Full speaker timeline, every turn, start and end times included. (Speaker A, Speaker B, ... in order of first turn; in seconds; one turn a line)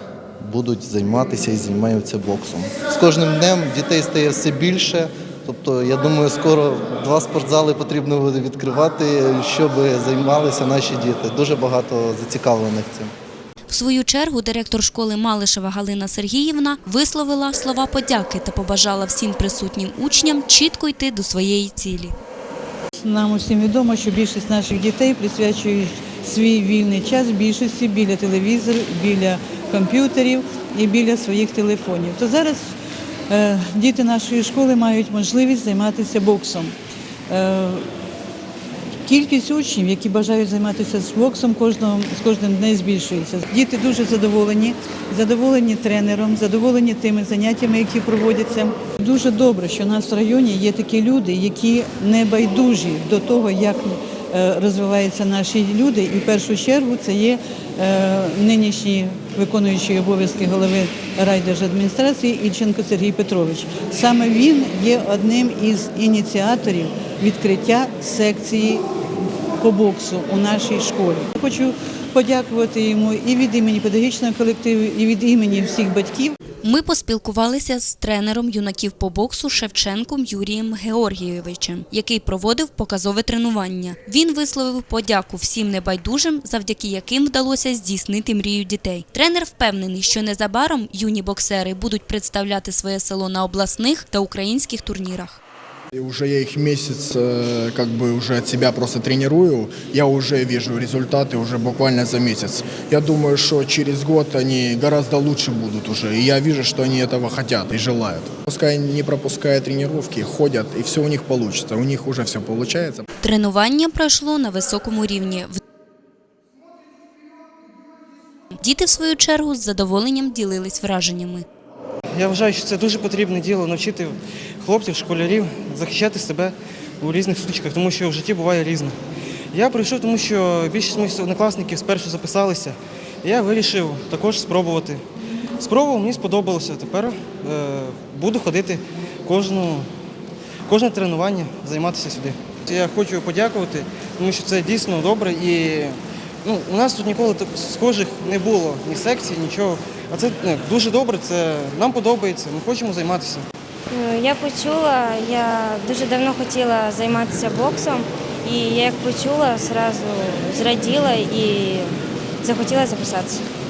Speaker A: 0.4-13.1
Speaker B: 13.7-22.1
Speaker C: 23.0-32.7
Speaker C: 33.3-36.7
Speaker C: 37.3-37.8
Speaker C: 39.0-68.8
Speaker C: 69.6-76.4
Speaker B: 76.6-95.4
Speaker D: 95.9-113.0
Speaker B: 113.2-115.6
Speaker B: 118.5-121.5
Speaker E: 122.1-128.9
Speaker E: 129.5-135.0
Speaker E: 135.6-139.9
Speaker E: 140.7-153.4
Speaker F: 153.9-163.4